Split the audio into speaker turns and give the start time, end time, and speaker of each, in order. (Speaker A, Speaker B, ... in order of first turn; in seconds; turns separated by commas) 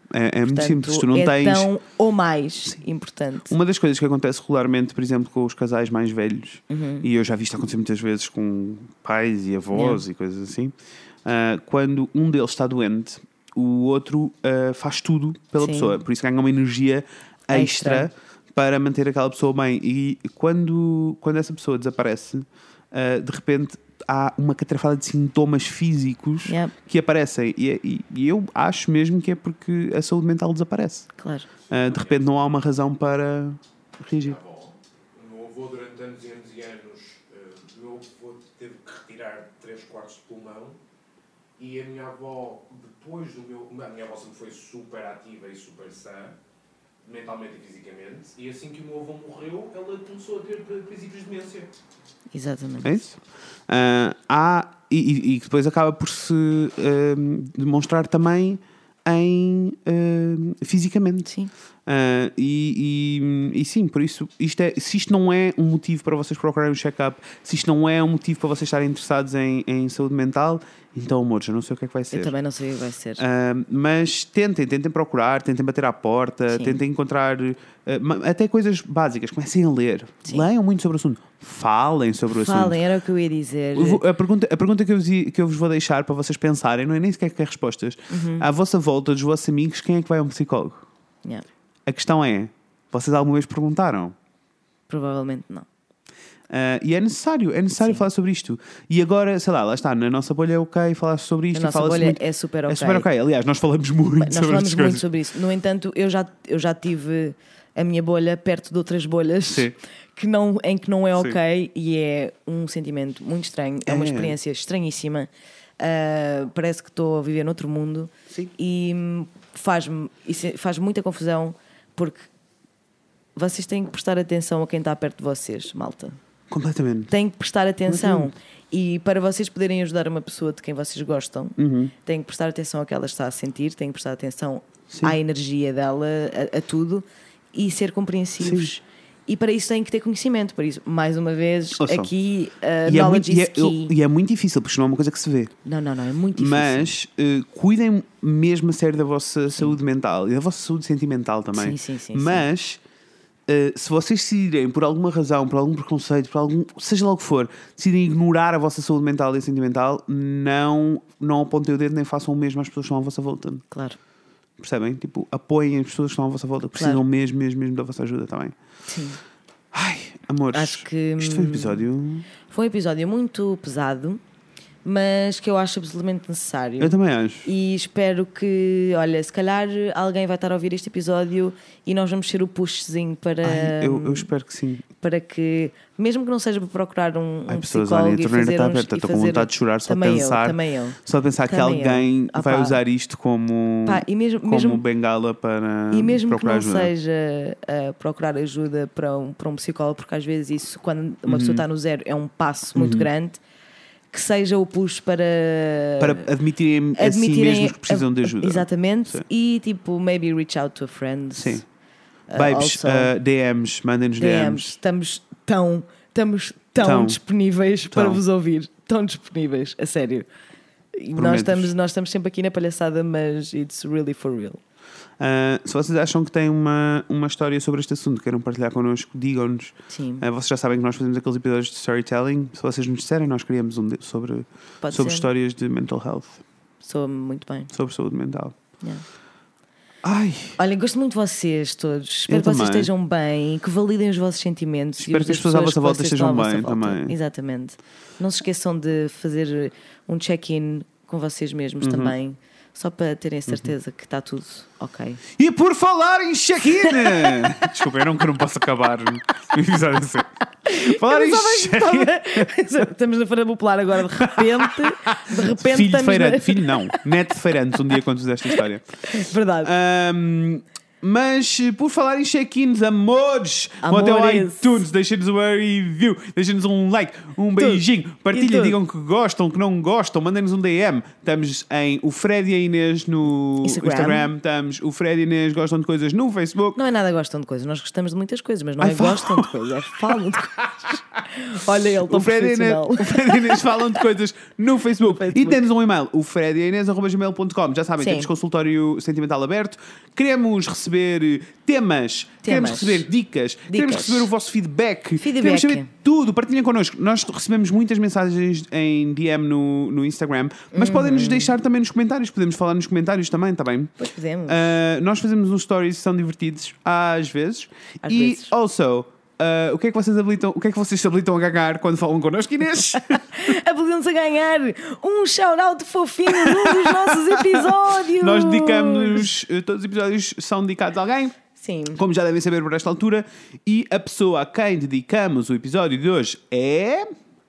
Speaker A: 0.1-1.7, Speaker B: 0.5-3.5, Speaker A: 3.5-10.7, Speaker B: 6.7-7.1, Speaker B: 9.7-10.0, Speaker A: 11.2-31.1, Speaker B: 15.6-16.0, Speaker B: 17.5-18.1, Speaker B: 26.4-26.7, Speaker B: 31.2-31.5, Speaker A: 31.7-34.4, Speaker C: 31.8-32.2, Speaker C: 34.2-40.8, Speaker C: 41.6-46.4, Speaker C: 47.0-51.7, Speaker B: 52.3-52.9, Speaker A: 52.8-61.3, Speaker B: 61.2-61.5, Speaker A: 61.9-72.3, Speaker B: 72.1-73.2, Speaker A: 73.2-82.8, Speaker B: 76.5-76.8, Speaker B: 82.3-84.0, Speaker A: 83.7-90.8, Speaker B: 88.1-88.5, Speaker A: 91.8-94.1, Speaker B: 94.9-95.7, Speaker A: 96.5-105.0, Speaker B: 97.8-98.0, Speaker B: 101.5-103.1, Speaker B: 104.2-122.3, Speaker A: 109.4-109.7, Speaker A: 113.8-114.3, Speaker B: 123.3-126.2, Speaker A: 126.5-127.1, Speaker B: 127.1-143.9, Speaker A: 127.9-128.3, Speaker A: 131.6-131.9, Speaker A: 134.9-135.1, Speaker A: 138.4-138.7, Speaker A: 141.8-142.1, Speaker A: 142.8-145.5, Speaker B: 145.6-146.9, Speaker A: 146.3-152.8, Speaker B: 151.5-152.4, Speaker A: 153.5-163.6, Speaker B: 163.7-164.0, Speaker A: 164.6-168.5, Speaker B: 166.8-167.0, Speaker B: 168.9-169.2, Speaker A: 169.7-172.3, Speaker B: 170.5-171.8, Speaker B: 172.5-174.2, Speaker B: 174.8-184.3, Speaker A: 176.8-177.5, Speaker A: 183.4-184.8, Speaker B: 185.0-192.8, Speaker A: 187.5-196.9, Speaker B: 193.8-194.8, Speaker B: 195.9-203.4, Speaker A: 201.2-201.6, Speaker A: 202.8-203.1, Speaker B: 204.1-206.3, Speaker A: 206.0-209.2, Speaker B: 206.9-211.6, Speaker A: 211.3-211.7, Speaker B: 212.3-213.1, Speaker A: 212.3-214.7, Speaker B: 214.2-220.3, Speaker A: 216.8-217.2, Speaker A: 217.9-218.2, Speaker B: 220.9-224.6, Speaker A: 221.1-221.7, Speaker A: 225.2-236.4, Speaker B: 229.9-230.2, Speaker B: 234.8-235.3, Speaker B: 236.8-237.7, Speaker A: 237.7-238.6, Speaker A: 240.0-240.6, Speaker B: 240.6-255.2, Speaker A: 242.3-242.9, Speaker A: 245.0-247.1, Speaker A: 251.8-252.1, Speaker A: 253.5-253.7, Speaker A: 255.4-262.5, Speaker B: 256.7-257.5, Speaker B: 260.6-267.0, Speaker A: 264.2-268.9, Speaker B: 268.5-269.7, Speaker A: 269.6-286.8, Speaker B: 273.8-274.8, Speaker B: 277.6-278.8, Speaker B: 283.6-284.3, Speaker B: 286.8-293.9, Speaker A: 288.8-289.6, Speaker A: 292.1-313.9, Speaker B: 295.0-295.6, Speaker B: 298.0-298.3, Speaker B: 302.4-303.1, Speaker B: 303.7-304.3, Speaker B: 305.2-305.9, Speaker B: 310.7-311.6, Speaker B: 314.0-314.8, Speaker A: 314.5-323.2, Speaker B: 318.0-318.5, Speaker B: 323.1-329.3, Speaker A: 326.3-331.4, Speaker B: 331.5-332.0, Speaker A: 331.9-337.1